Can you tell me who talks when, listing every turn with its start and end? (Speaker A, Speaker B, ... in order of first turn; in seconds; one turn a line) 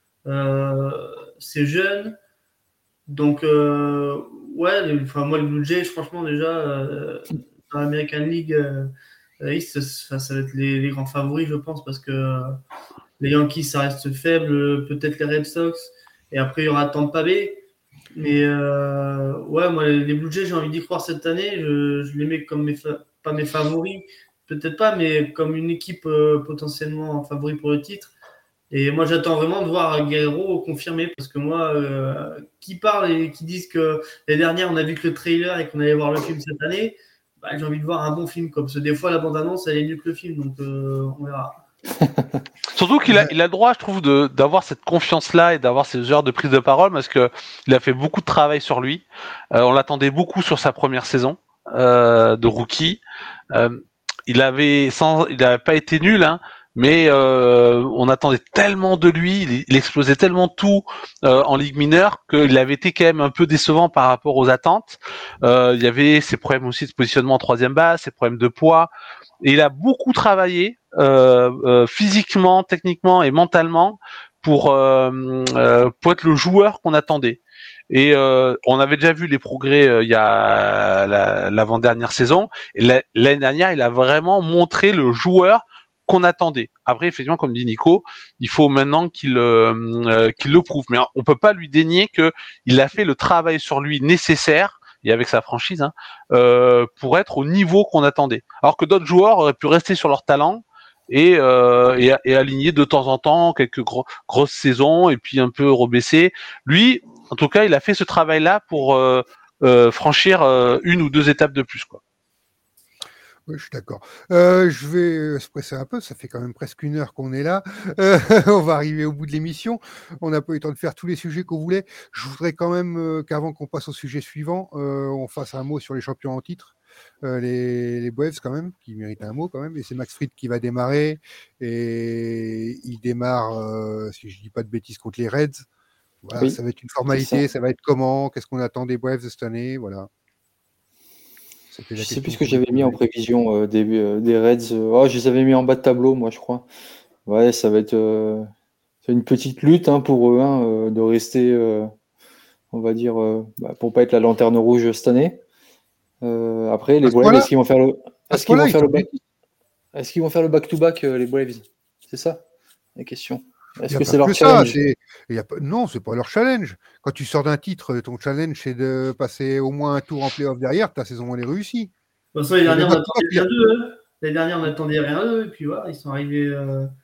Speaker A: 0.2-2.1
Speaker A: 3.1-12.6
Speaker A: 13.2-28.1
Speaker A: 28.7-41.6
Speaker B: 42.0-42.4
Speaker C: 42.7-53.0
Speaker C: 53.5-68.9
Speaker C: 69.4-112.0
Speaker D: 113.5-135.7
Speaker D: 136.2-140.1
Speaker B: 137.1-137.4
Speaker D: 141.7-143.0
Speaker B: 142.0-146.7
Speaker B: 147.2-148.5
Speaker B: 149.0-151.9
Speaker B: 152.7-155.4
Speaker B: 156.2-159.1
Speaker D: 157.0-157.5
Speaker D: 158.3-159.2
Speaker B: 159.9-162.4
Speaker B: 162.9-164.8
Speaker D: 163.9-171.9
Speaker A: 172.3-176.9
Speaker D: 172.6-173.5